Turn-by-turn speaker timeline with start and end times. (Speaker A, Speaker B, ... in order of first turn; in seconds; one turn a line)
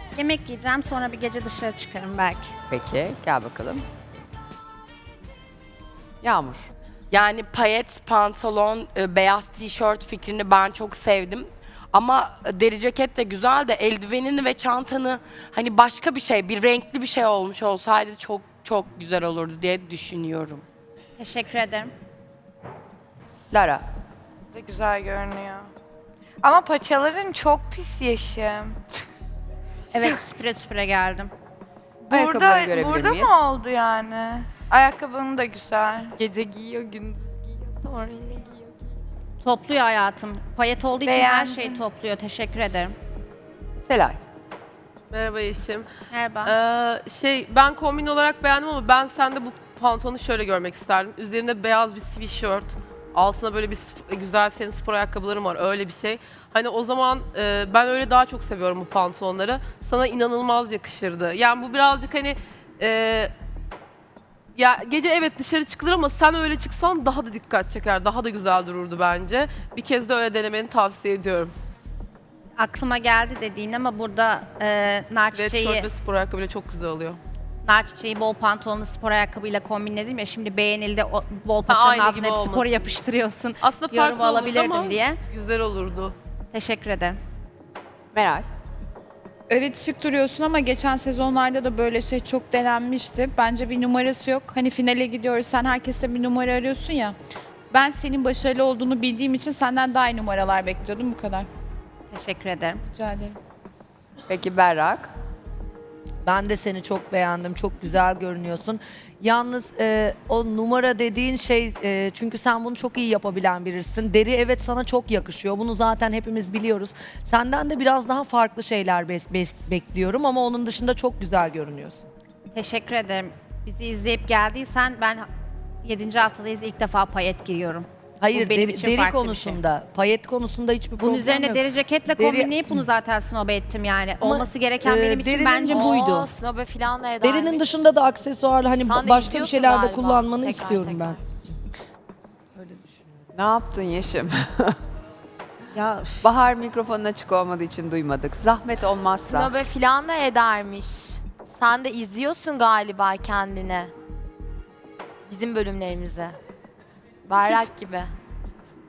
Speaker A: 0.1-2.5
Speaker B: 2.7-3.8
Speaker B: 6.2-6.7
Speaker C: 7.1-20.6
Speaker A: 21.2-21.9
Speaker B: 23.5-23.8
Speaker D: 24.5-25.7
Speaker D: 26.4-28.8
Speaker A: 29.9-31.3
Speaker D: 32.0-36.2
Speaker B: 32.1-33.3
Speaker A: 39.4-42.9
Speaker D: 41.0-41.8
Speaker B: 43.9-44.2
Speaker E: 45.1-45.9
Speaker A: 46.1-46.5
Speaker E: 46.4-63.3
Speaker E: 64.5-71.5
Speaker A: 72.6-75.9
Speaker E: 75.3-77.2
Speaker A: 77.6-85.2
Speaker E: 81.7-82.9
Speaker E: 83.6-86.1
Speaker A: 86.5-87.2
Speaker B: 88.1-88.4
Speaker F: 89.5-97.1
Speaker F: 97.7-101.5
Speaker A: 102.1-102.8
Speaker F: 102.9-103.4
Speaker B: 104.3-105.1
Speaker G: 106.2-122.1
Speaker A: 122.5-125.2
Speaker A: 125.8-129.6
Speaker G: 128.2-131.6
Speaker A: 131.0-136.3
Speaker G: 132.1-132.6
Speaker G: 134.2-136.1
Speaker H: 135.7-137.8
Speaker G: 137.2-141.2
Speaker H: 138.8-141.2
Speaker B: 143.3-144.8
Speaker G: 145.8-146.0
Speaker B: 146.2-149.5
Speaker H: 149.3-153.9
Speaker H: 155.3-156.4
Speaker H: 157.3-158.1